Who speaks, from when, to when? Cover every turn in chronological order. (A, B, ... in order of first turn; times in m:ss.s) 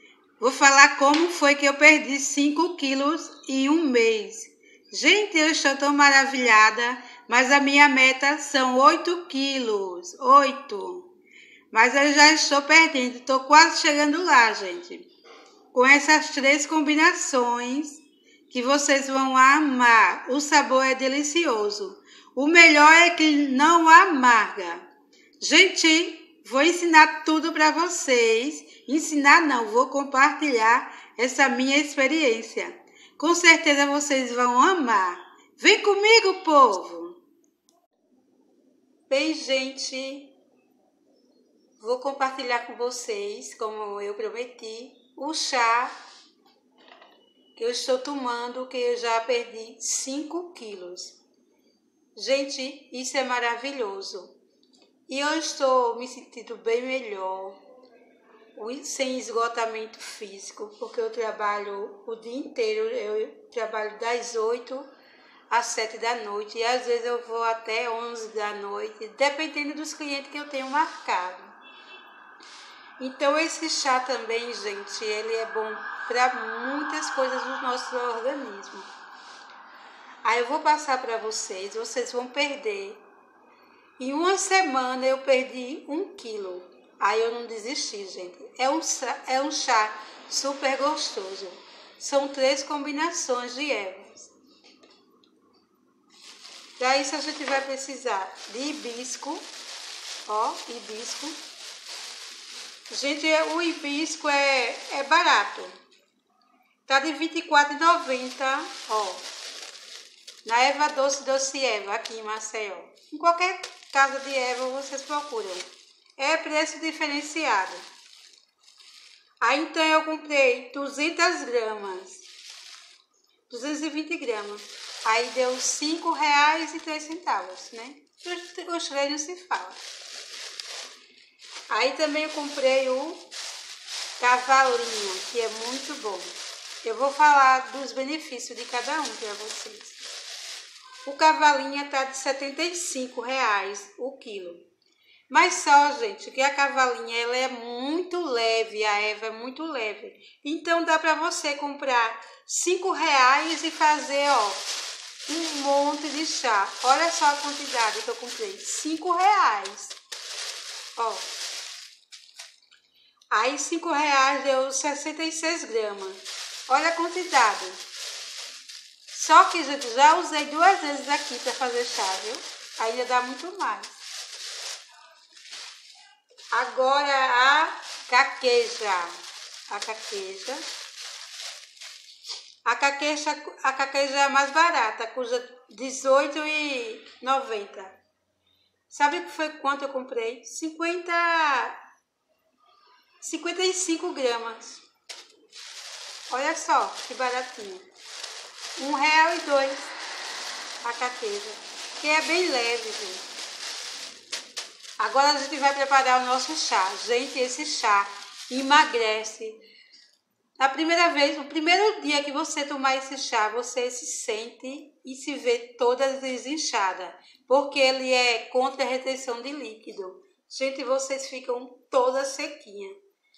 0:00.4-0:11.1 A
0:11.7-0:15.1 A
0:15.7-0:24.8 A
0:25.4-0:37.2 A
0:39.1-0:40.3 A
0:41.8-0:45.9 A
0:47.6-0:51.2 A
0:52.2-0:54.3 A
0:55.1-0:57.6 A
0:58.6-1:04.9 A
1:05.5-1:11.5 A
1:13.0-1:18.9 A
1:20.2-1:23.0 A
1:24.0-1:34.3 A
1:36.8-1:39.4 A
1:40.3-1:41.4 A
1:42.9-1:45.7 A
1:46.9-1:49.2 A
1:50.4-1:55.6 A
1:56.2-1:57.8 A
1:59.4-2:02.3 A
2:03.5-2:09.8 A
2:11.7-2:13.2 A
2:14.2-2:20.0 A
2:21.0-2:24.6 A
2:25.3-2:34.6 A
2:35.3-2:40.0 A
2:41.0-2:41.3 A
2:43.3-2:47.8 A
2:49.1-2:54.0 A
2:56.5-2:59.2 A
2:59.7-3:00.6 A
3:02.6-3:08.0 A
3:08.9-3:11.8 A
3:13.2-3:14.8 A
3:16.3-3:17.8 A
3:18.8-3:19.9 A
3:20.8-3:23.2 A
3:25.0-3:29.6 A
3:30.6-3:43.0 A